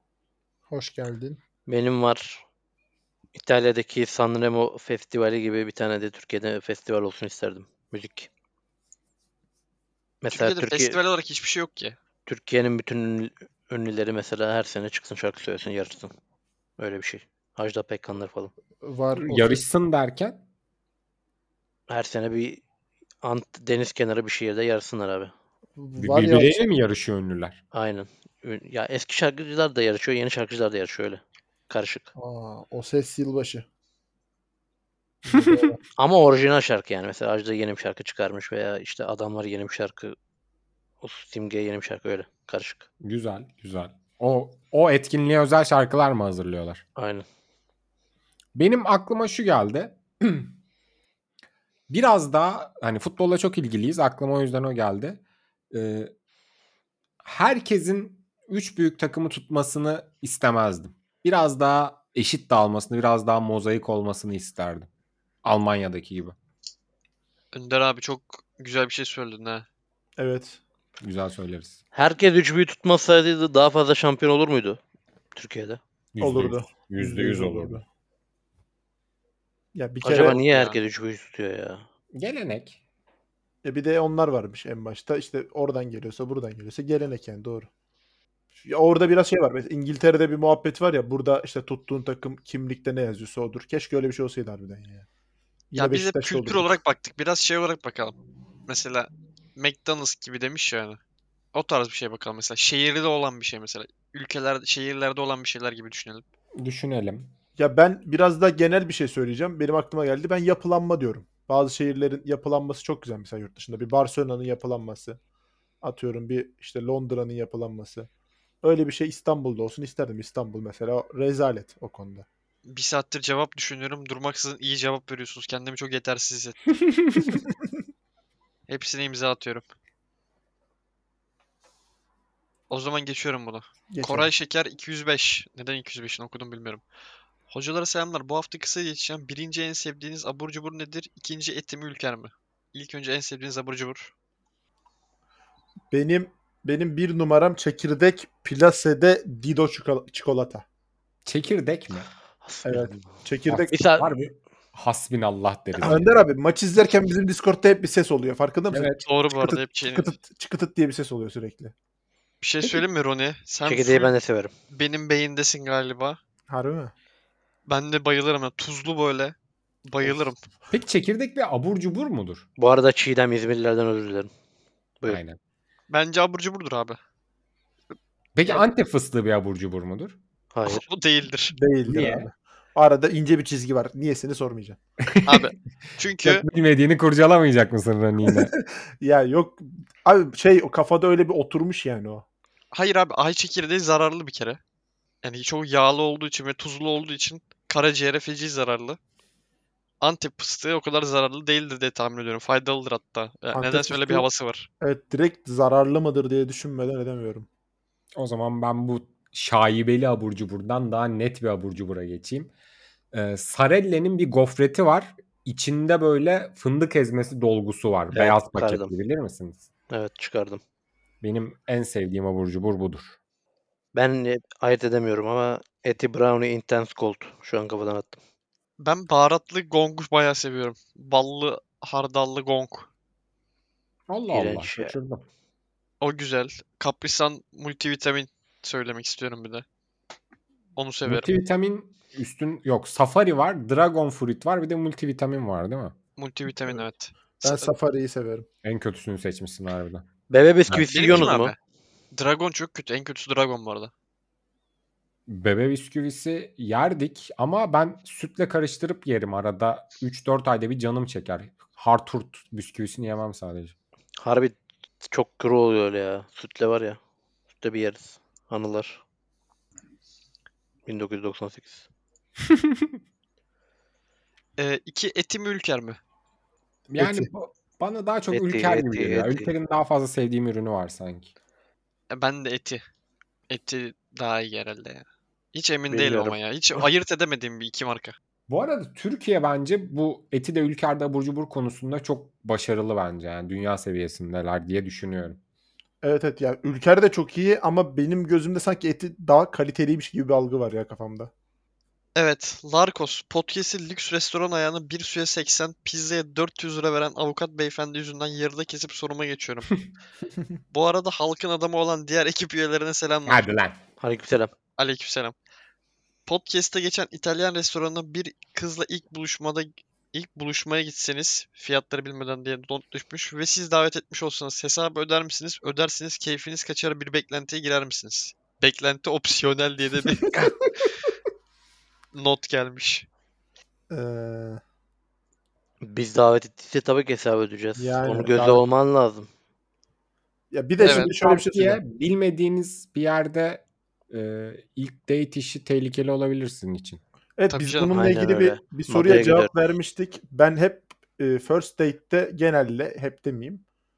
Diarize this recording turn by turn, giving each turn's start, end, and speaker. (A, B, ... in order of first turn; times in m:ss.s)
0:00.7-0:01.4 A
0:01.7-0:02.4 B
0:03.4-0:08.3 B
0:10.2-0:11.0 B
0:10.3-0:12.0 C
0:12.3-0:16.1 B
0:16.8-0:18.5 B
0:18.8-0:19.6 A
0:19.2-0:20.4 D
0:21.9-0:22.6 B
0:23.2-0:25.3 B
0:25.8-0:26.6 A
0:26.0-0:27.6 D
0:27.7-0:32.1 B
0:32.2-0:33.6 A
0:35.2-0:35.8 A
0:35.3-0:35.6 D
0:36.0-0:40.2 B
0:41.0-0:42.9 B
0:43.0-0:46.8 D
0:47.0-0:47.2 B
0:48.6-0:50.5 D
0:51.9-0:56.1 D
0:57.2-1:04.9 D
1:05.4-1:06.4 D
1:07.5-1:09.6 C
1:10.2-1:10.6 A
1:11.0-1:11.8 D
1:11.9-1:14.8 B
1:15.4-1:15.8 B
1:16.1-1:17.8 D
1:16.2-1:17.8 A
1:19.7-1:20.4 A
1:20.0-1:21.8 B
1:20.5-1:20.8 C
1:22.1-1:22.8 D
1:23.6-1:27.7 A
1:28.6-1:35.1 A
1:35.7-1:36.7 A
1:35.8-1:38.2 C
1:38.7-1:41.0 C
1:41.5-1:46.2 C
1:46.6-1:47.3 D
1:47.6-1:55.2 A
1:55.8-1:58.1 A
1:58.6-2:02.3 A
2:02.7-2:06.6 C
2:08.7-2:09.6 C
2:12.7-2:16.8 C
2:13.9-2:14.3 A
2:17.5-2:24.1 C
2:25.9-2:30.6 A
2:31.2-2:32.1 D
2:32.4-2:32.9 B
2:32.6-2:33.7 A
2:33.5-2:36.1 D
2:33.5-2:34.1 B
2:35.8-2:41.7 A
2:38.7-2:39.0 D
2:39.1-2:40.1 C
2:42.4-2:44.1 C
2:43.6-2:44.5 B
2:44.7-2:46.2 C
2:46.5-2:46.9 A
2:47.7-2:49.4 C
2:49.9-2:50.4 C
2:50.7-2:52.4 D
2:52.6-2:54.3 B
2:55.1-2:55.4 D
2:55.9-2:57.0 C
2:58.4-3:00.2 D
3:00.5-3:00.9 B
3:00.7-3:01.6 C
3:01.5-3:04.8 A
3:01.9-3:02.3 D
3:05.1-3:05.5 D
3:05.2-3:06.5 C
3:06.2-3:08.5 D
3:08.3-3:12.2 A
3:12.7-3:14.6 C
3:15.2-3:19.0 C
3:20.0-3:24.7 C
3:23.5-3:24.3 A
3:24.8-3:27.5 A
3:28.2-3:32.5 D
3:33.1-3:39.6 D
3:38.1-3:38.9 B
3:39.9-3:40.6 B
3:41.2-3:43.2 D
3:43.9-3:48.2 B
3:48.8-3:52.9 C
3:54.1-3:55.2 D
3:54.3-3:55.0 B
3:56.0-3:59.6 C
4:00.8-4:01.3 C
4:01.1-4:06.0 D
4:06.2-4:07.7 C
4:07.4-4:08.5 A
4:08.6-4:10.1 D
4:10.3-4:11.5 B
4:10.7-4:11.3 D
4:10.9-4:11.6 C
4:12.1-4:13.9 C
4:15.3-4:23.7 D
4:24.2-4:27.0 B
4:27.6-4:29.0 B
4:30.9-4:31.9 B
4:32.5-4:32.9 D
4:34.6-4:36.0 C
4:36.9-4:41.3 D
4:37.0-4:37.3 A
4:38.3-4:39.5 B
4:42.1-4:42.8 C
4:43.5-4:48.2 C
4:45.9-4:46.4 B
4:48.5-4:55.4 D
4:56.0-5:01.3 A
5:02.2-5:09.8 C
5:10.7-5:13.5 C
5:13.3-5:13.8 D
5:14.0-5:14.5 B
5:14.8-5:15.3 C
5:16.3-5:30.4 C
5:32.1-5:33.1 C
5:33.9-5:34.6 A
5:35.8-5:39.3 B
5:37.8-5:38.6 A
5:40.5-5:41.8 A
5:40.8-5:41.1 C
5:40.8-5:47.0 D
5:47.4-5:53.6 A
5:47.5-5:48.0 C
5:47.9-5:49.5 B